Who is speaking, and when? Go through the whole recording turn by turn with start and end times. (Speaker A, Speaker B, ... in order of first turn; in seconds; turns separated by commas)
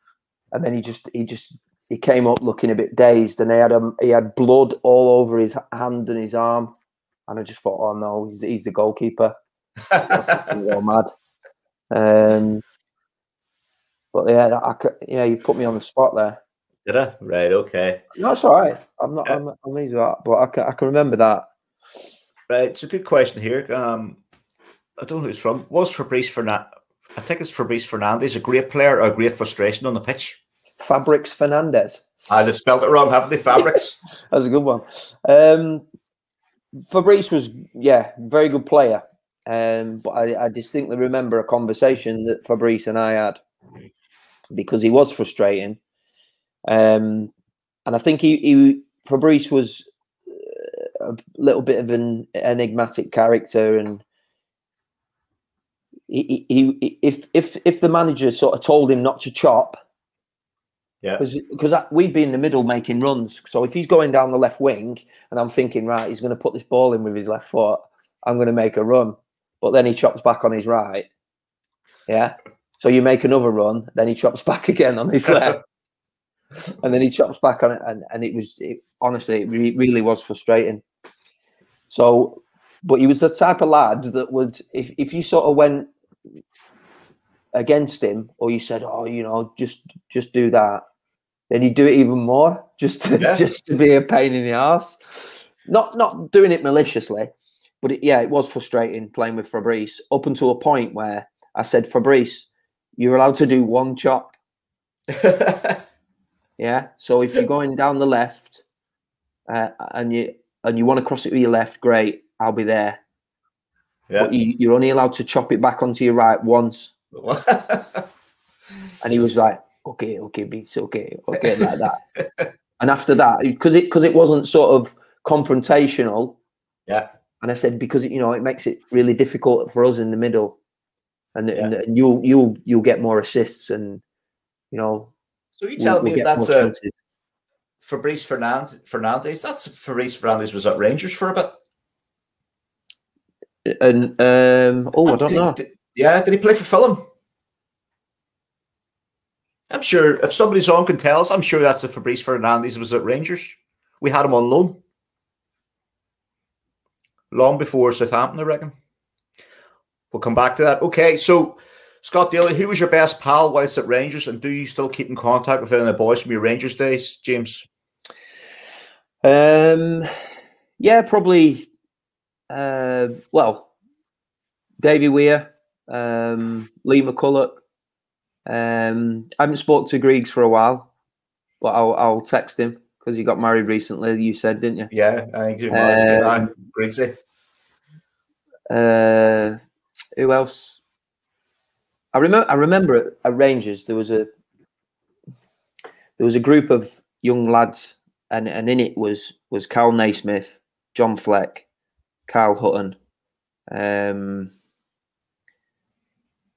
Speaker A: 0.5-6.7, Speaker A: 7.3-9.3, Speaker B: 9.9-10.3, Speaker A: 10.0-11.1, Speaker A: 11.9-12.6, Speaker A: 14.1-16.4, Speaker B: 16.8-18.0, Speaker A: 18.1-21.5, Speaker B: 22.5-24.2, Speaker B: 25.0-30.4, Speaker A: 30.8-32.0, Speaker B: 32.3-34.0, Speaker A: 33.6-35.8, Speaker A: 36.9-43.4, Speaker A: 44.5-45.8, Speaker A: 46.6-47.3, Speaker A: 47.9-54.0, Speaker A: 56.1-59.8, Speaker A: 61.2-71.1, Speaker A: 72.1-75.6, Speaker A: 76.8-80.8, Speaker A: 81.9-85.9, Speaker A: 87.5-90.8, Speaker A: 91.5-104.3, Speaker B: 93.2-93.4, Speaker B: 105.1-105.8, Speaker A: 106.6-108.6, Speaker A: 109.5-113.0, Speaker A: 114.2-116.9, Speaker B: 117.1-118.0, Speaker A: 119.0-122.0, Speaker B: 121.6-122.5, Speaker A: 122.8-126.4, Speaker A: 127.4-130.6, Speaker A: 131.3-134.0, Speaker A: 134.7-135.1, Speaker B: 135.6-136.7, Speaker A: 135.8-136.9, Speaker B: 137.8-141.6, Speaker A: 143.6-145.6, Speaker B: 145.1-147.0, Speaker B: 149.7-154.8, Speaker B: 157.3-158.7, Speaker B: 160.1-167.7, Speaker A: 169.2-170.1, Speaker A: 170.8-171.7, Speaker A: 172.5-173.7, Speaker A: 174.8-177.6, Speaker A: 178.4-180.9, Speaker A: 181.6-184.9, Speaker B: 184.9-187.1, Speaker A: 185.7-186.5, Speaker A: 188.7-189.6, Speaker A: 190.2-190.8, Speaker A: 192.1-194.3, Speaker A: 196.2-201.7, Speaker A: 202.3-203.0, Speaker A: 203.7-204.5